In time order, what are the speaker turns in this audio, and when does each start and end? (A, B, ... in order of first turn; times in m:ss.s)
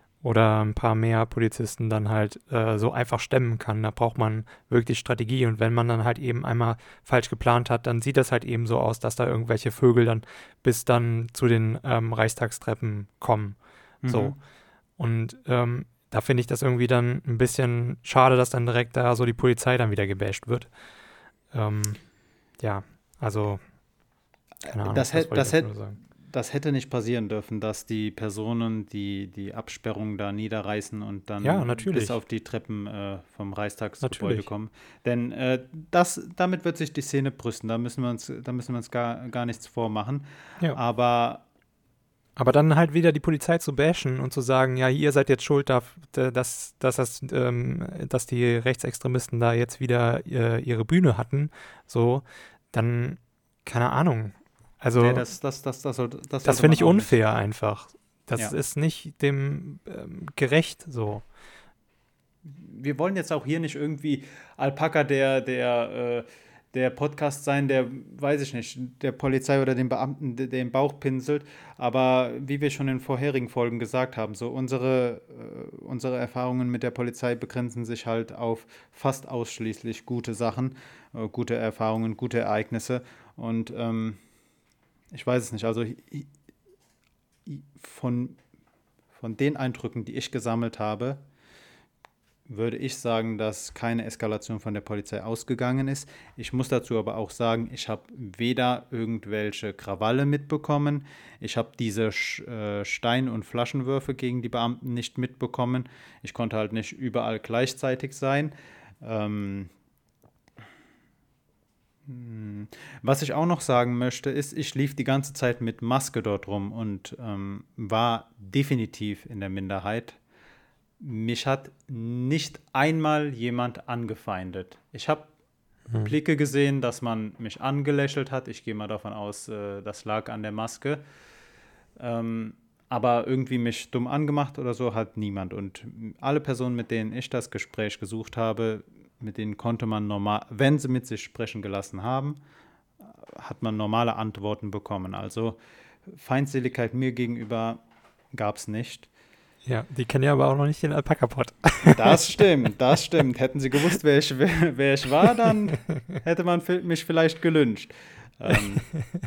0:00.2-0:14.4 A
0:14.0-0:14.4 B
0:15.0-0:20.7 A
0:21.5-0:22.0 A
0:22.6-0:23.6 A
0:24.6-0:25.8 B
0:24.7-0:26.0 A
0:26.3-0:41.4 B
0:31.4-0:32.2 A
0:34.0-0:34.5 A
0:42.4-0:55.2 A
0:55.0-0:57.2 B
0:56.4-1:01.2 A
1:02.4-1:24.2 B
1:25.1-1:26.3 B
1:27.5-1:28.4 B
1:29.1-1:31.2 B
1:32.5-1:49.7 B
1:52.1-2:00.2 B
2:01.0-2:05.3 B
2:06.0-2:11.0 B
2:12.0-2:22.4 B
2:23.0-2:27.8 B
2:28.3-2:29.1 B
2:29.6-2:32.4 A
2:31.8-2:38.9 B